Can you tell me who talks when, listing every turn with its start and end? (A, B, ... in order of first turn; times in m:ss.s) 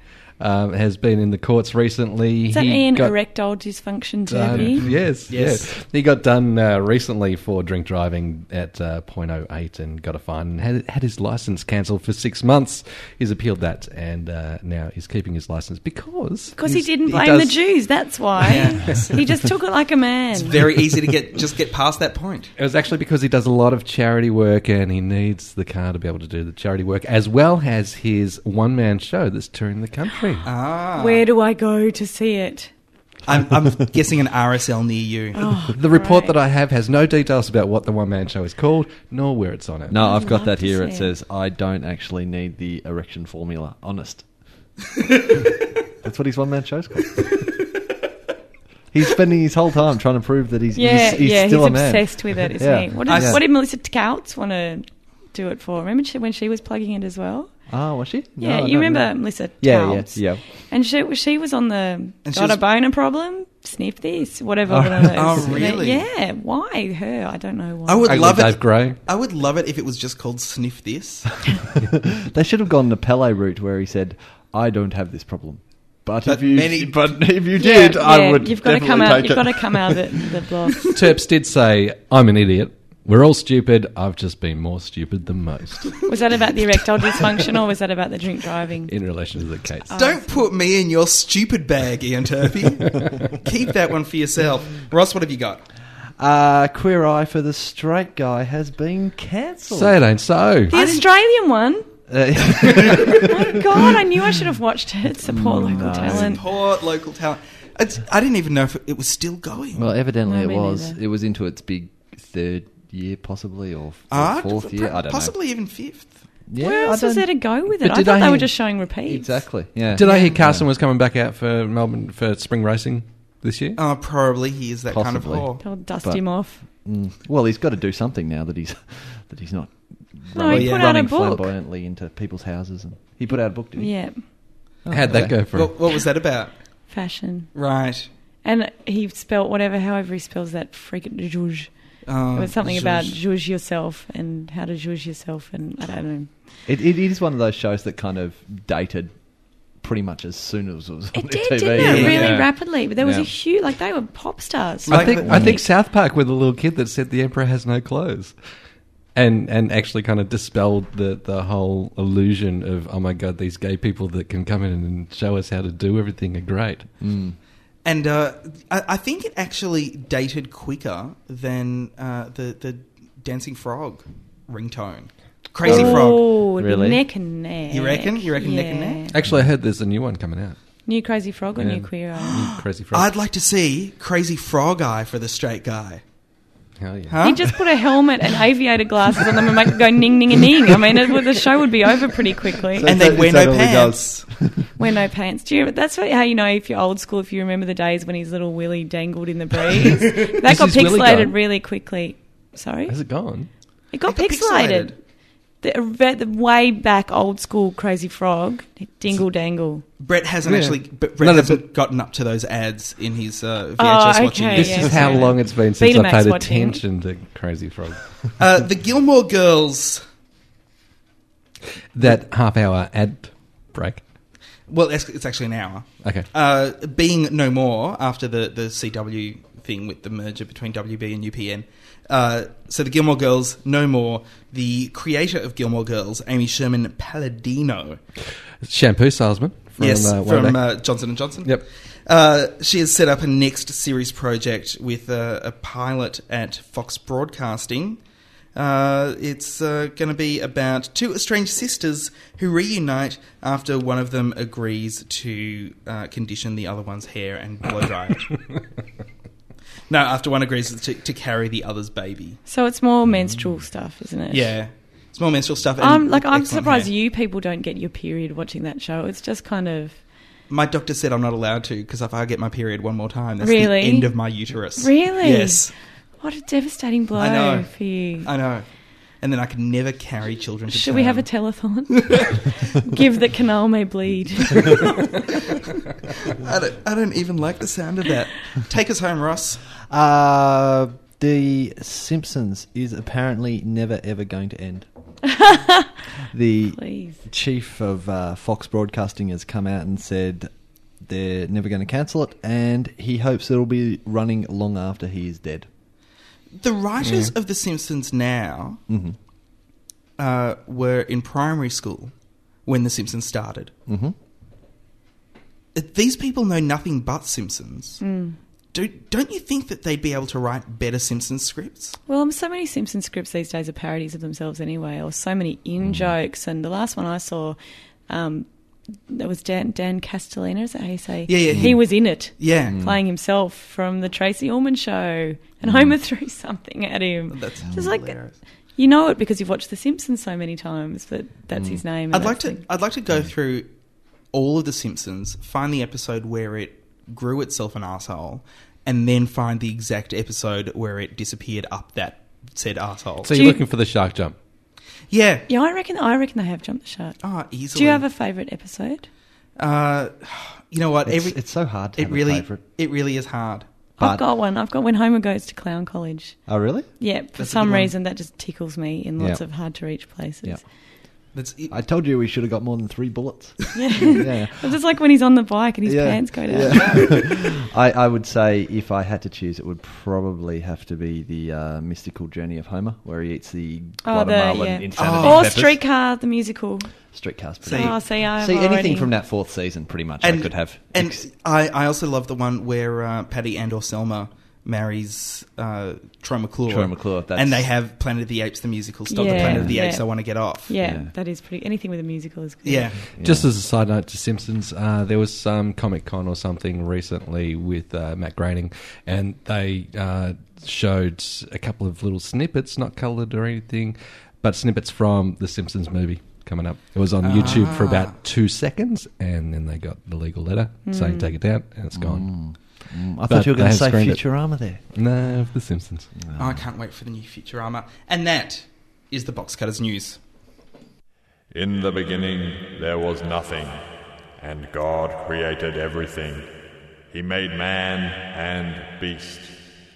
0:00.4-0:03.2 A
0:02.5-0:04.8 B
0:04.3-0:17.6 A
0:04.8-0:05.7 C
0:16.6-0:20.6 B
0:18.4-0:19.2 C
0:20.4-0:22.5 C
0:22.6-0:30.5 A
0:30.4-0:31.2 C
0:31.0-0:32.7 B
0:33.3-0:35.6 C
0:35.4-0:36.4 B
0:35.8-0:40.0 A
0:39.9-0:44.3 D
0:40.0-0:41.1 B
0:46.0-0:47.3 D
0:48.9-0:53.4 D
0:50.8-0:57.5 B
0:53.1-0:53.4 C
0:57.7-1:00.4 D
0:58.4-1:08.1 B
1:02.2-1:02.6 C
1:04.7-1:05.7 D
1:05.2-1:06.0 C
1:07.9-1:11.6 C
1:08.1-1:09.0 A
1:12.2-1:20.2 D
1:16.2-1:17.2 C
1:17.6-1:20.8 B
1:21.0-1:26.0 A
1:26.1-1:28.9 B
1:28.9-1:29.9 A
1:29.9-1:30.5 B
1:29.9-1:35.6 C
1:36.2-1:40.0 D
1:39.7-1:40.7 A
1:40.7-1:41.9 B
1:40.7-1:41.1 C
1:42.1-1:43.4 D
1:43.0-1:46.4 B
1:45.2-1:46.4 D
1:45.8-1:49.9 C
1:49.7-1:55.4 D
1:50.2-1:51.0 B
1:54.1-1:56.2 C
1:56.5-1:57.3 D
1:56.6-1:59.5 B
1:57.8-1:58.5 A
1:59.0-2:00.7 D
1:59.9-2:03.8 A
2:00.0-2:00.4 C
2:03.8-2:05.6 C
2:04.9-2:15.5 D
2:05.6-2:06.6 B
2:10.3-2:11.5 B
2:10.5-2:11.0 C
2:13.8-2:14.2 B
2:14.9-2:15.7 A
2:15.1-2:16.6 C
2:16.9-2:17.5 B
2:17.5-2:18.1 C
2:18.4-2:26.3 B
2:22.1-2:23.2 C
2:26.7-2:29.2 D
2:29.8-2:33.3 D
2:31.1-2:35.6 B
2:31.8-2:32.5 C
2:34.9-2:35.6 D
2:34.9-2:35.5 C
2:34.9-2:38.4 A
2:39.2-2:46.9 A
2:47.0-2:47.4 D
2:47.8-2:56.3 C
2:55.6-2:57.0 D
2:55.6-2:59.1 B
2:57.7-2:59.1 C
2:59.1-3:00.6 A
3:00.9-3:02.4 B
3:01.6-3:03.1 A
3:02.2-3:06.0 C
3:06.8-3:07.2 A
3:07.1-3:07.6 C
3:07.2-3:12.9 B
3:12.8-3:14.7 D
3:12.8-3:14.3 C
3:14.8-3:23.0 B
3:20.4-3:21.4 A
3:22.9-3:23.5 A
3:23.9-3:25.0 B
3:24.1-3:25.0 C
3:25.6-3:29.8 B
3:30.0-3:35.3 C
3:30.4-3:31.6 A
3:33.8-3:36.8 B
3:34.5-3:38.3 A
3:38.4-3:40.0 C
3:41.9-3:44.0 A
3:44.7-3:58.0 C
3:46.0-3:46.3 A
3:58.6-4:01.6 A
3:59.8-4:08.0 C
4:08.6-4:18.6 C
4:19.9-4:22.4 C
4:22.5-4:24.6 B
4:24.3-4:26.9 C
4:25.8-4:30.0 B
4:30.5-4:35.7 C
4:33.4-4:34.2 B
4:34.8-4:35.7 B
4:36.2-4:38.3 B
4:37.2-4:38.7 C
4:39.2-4:41.3 C
4:40.7-4:45.0 B
4:41.9-4:42.5 C
4:46.3-4:49.6 C
4:49.9-4:54.9 D
4:55.3-4:55.9 B
4:56.3-5:00.5 D
4:56.8-4:57.2 B
5:01.0-5:05.7 D
5:06.6-5:08.8 C
5:07.0-5:07.3 A
5:08.9-5:09.2 D
5:10.2-5:12.1 C
5:12.6-5:13.7 C
5:13.9-5:14.2 D
5:15.8-5:18.0 C
5:18.0-5:18.4 B
5:18.7-5:22.0 C
5:22.1-5:27.6 B
5:25.8-5:26.1 D
5:28.1-5:28.5 B
5:29.1-5:38.2 B
5:31.3-5:32.8 C
5:31.5-5:31.8 D
5:32.4-5:33.0 D
5:35.6-5:36.0 D
5:37.3-5:38.4 C
5:38.8-5:42.6 B
5:41.5-5:41.8 D
5:42.1-5:43.7 C
5:44.3-5:53.3 C
5:53.2-5:54.4 A
5:53.3-5:53.6 B
5:55.1-5:55.5 C
5:55.5-5:57.2 B
5:57.2-5:58.1 C
5:57.7-5:59.1 B
5:59.6-6:03.7 C
6:01.0-6:02.6 D
6:04.0-6:04.2 D
6:04.0-6:06.4 B
6:06.5-6:06.9 D
6:07.0-6:10.6 B
6:07.4-6:07.9 C
6:09.2-6:09.8 D
6:11.3-6:11.7 C
6:11.7-6:14.8 D
6:13.8-6:17.2 B
6:15.8-6:25.8 D
6:16.7-6:17.1 C
6:24.0-6:26.9 B
6:25.0-6:25.7 C
6:27.1-6:31.3 D
6:27.6-6:29.1 B
6:27.6-6:28.0 C
6:30.2-6:40.7 C
6:36.7-6:37.7 D
6:39.1-6:42.9 B
6:39.2-6:39.9 D
6:40.8-6:41.1 D
6:42.6-6:43.0 C
6:43.1-6:43.5 D
6:43.2-7:02.6 A
6:57.2-6:58.2 C
7:00.9-7:01.3 B
7:01.9-7:04.8 D
7:03.3-7:06.1 A
7:06.2-7:06.6 D
7:06.4-7:10.2 C
7:11.5-7:13.8 E
7:14.4-7:16.5 E
7:17.1-7:19.6 E